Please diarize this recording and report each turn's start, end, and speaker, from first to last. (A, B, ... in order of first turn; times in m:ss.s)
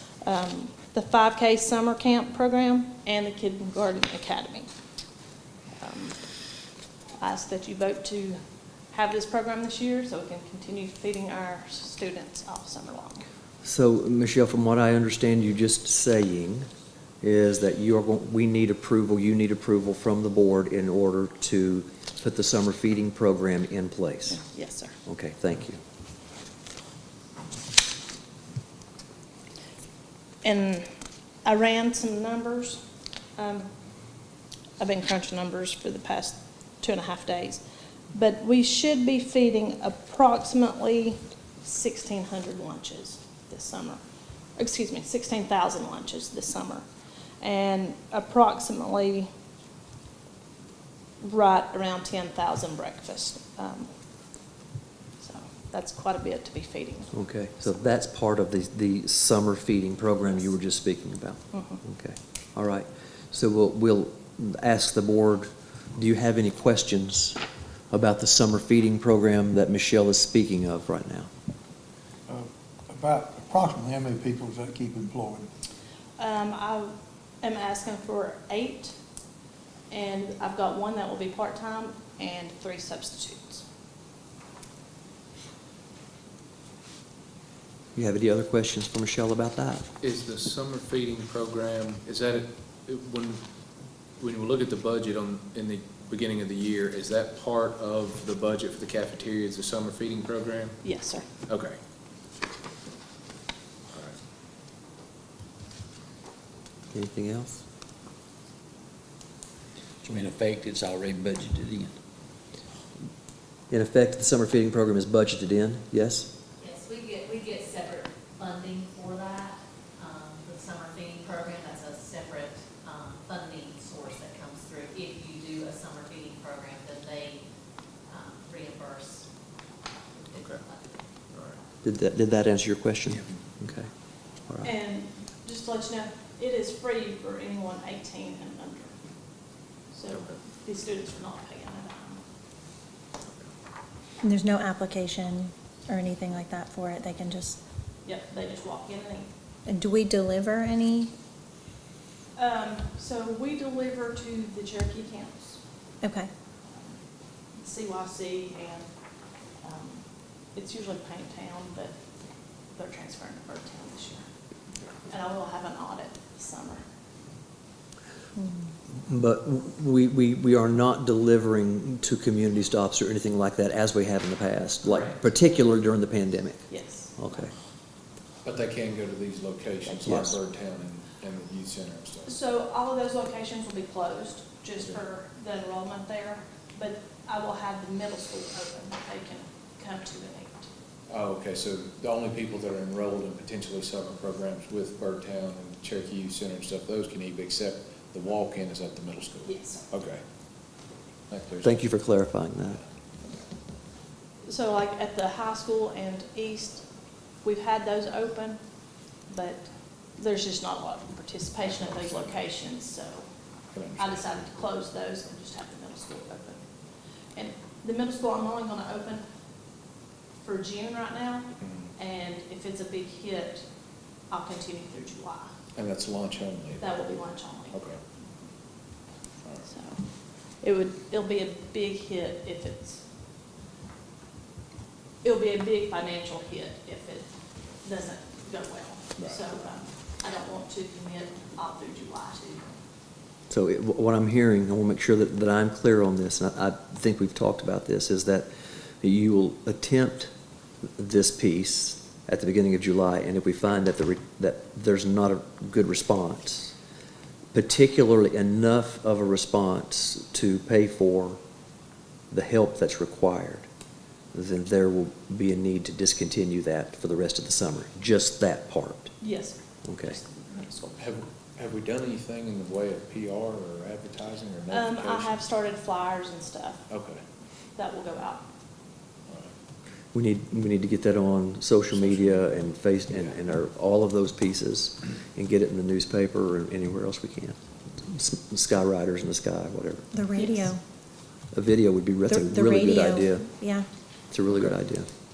0:00.2-0:04.7 A
0:05.8-0:06.2 A
0:07.2-0:08.4 A
0:08.9-0:13.3 A
0:13.6-0:16.7 B
0:17.2-0:24.4 B
0:24.3-0:25.0 A
0:25.1-0:25.8 B
0:30.4-0:30.9 A
0:31.4-0:32.8 A
0:33.4-0:33.7 A
0:34.8-0:44.0 A
0:44.6-0:46.8 A
0:47.4-0:49.3 A
0:51.2-0:53.9 A
0:55.2-0:57.1 A
0:57.1-1:07.4 B
1:01.5-1:01.8 A
1:07.9-1:11.3 B
1:12.3-1:15.5 C
1:16.2-1:19.0 A
1:19.9-1:23.6 A
1:28.0-1:29.9 B
1:30.0-1:33.4 D
1:34.2-1:40.8 D
1:40.8-1:41.2 A
1:41.5-1:41.8 D
1:46.9-1:47.6 B
1:50.0-1:52.0 E
1:53.7-1:56.3 B
1:56.6-2:07.4 F
2:08.1-2:09.3 F
2:10.2-2:11.0 F
2:11.8-2:13.9 B
2:14.5-2:14.7 B
2:14.6-2:19.0 A
2:19.9-2:22.2 A
2:24.2-2:27.6 G
2:28.0-2:29.3 A
2:29.7-2:31.1 G
2:32.4-2:35.6 A
2:36.0-2:36.3 G
2:37.6-2:38.9 A
2:39.6-2:42.0 A
2:42.8-2:44.2 A
2:45.1-2:46.8 A
2:49.0-2:57.5 B
2:56.7-2:57.4 A
2:58.4-3:02.3 D
3:00.0-3:00.4 B
3:02.3-3:10.7 A
3:11.1-3:20.2 D
3:19.4-3:19.9 A
3:21.3-3:21.8 D
3:21.6-3:22.8 B
3:24.5-3:26.9 A
3:27.4-3:28.6 A
3:29.3-3:33.3 A
3:31.7-3:32.3 D
3:33.7-3:34.4 D
3:34.0-3:36.6 A
3:37.4-3:39.2 A
3:40.4-3:43.7 A
3:41.6-3:41.9 D
3:44.3-3:45.5 A
3:45.8-3:47.0 D
3:46.8-3:47.8 A
3:47.7-3:48.0 D
3:49.7-3:50.0 A
3:50.6-3:53.0 A
3:55.2-3:57.3 A
3:57.8-4:02.7 A
4:03.5-4:08.5 B
4:09.0-4:10.3 B
4:11.0-4:16.8 B
4:17.5-4:21.4 B
4:22.3-4:23.7 B
4:24.3-4:29.2 B
4:29.2-4:31.0 A
4:29.8-4:30.2 B
4:31.0-4:35.4 D
4:34.7-4:36.8 A
4:36.9-4:37.2 D
4:37.8-4:38.4 A
4:39.3-4:39.5 D
4:40.1-4:50.1 B
4:50.1-4:50.8 G
4:50.4-4:50.7 A
4:51.5-4:53.5 B
4:52.3-4:53.9 G
4:54.3-4:55.1 B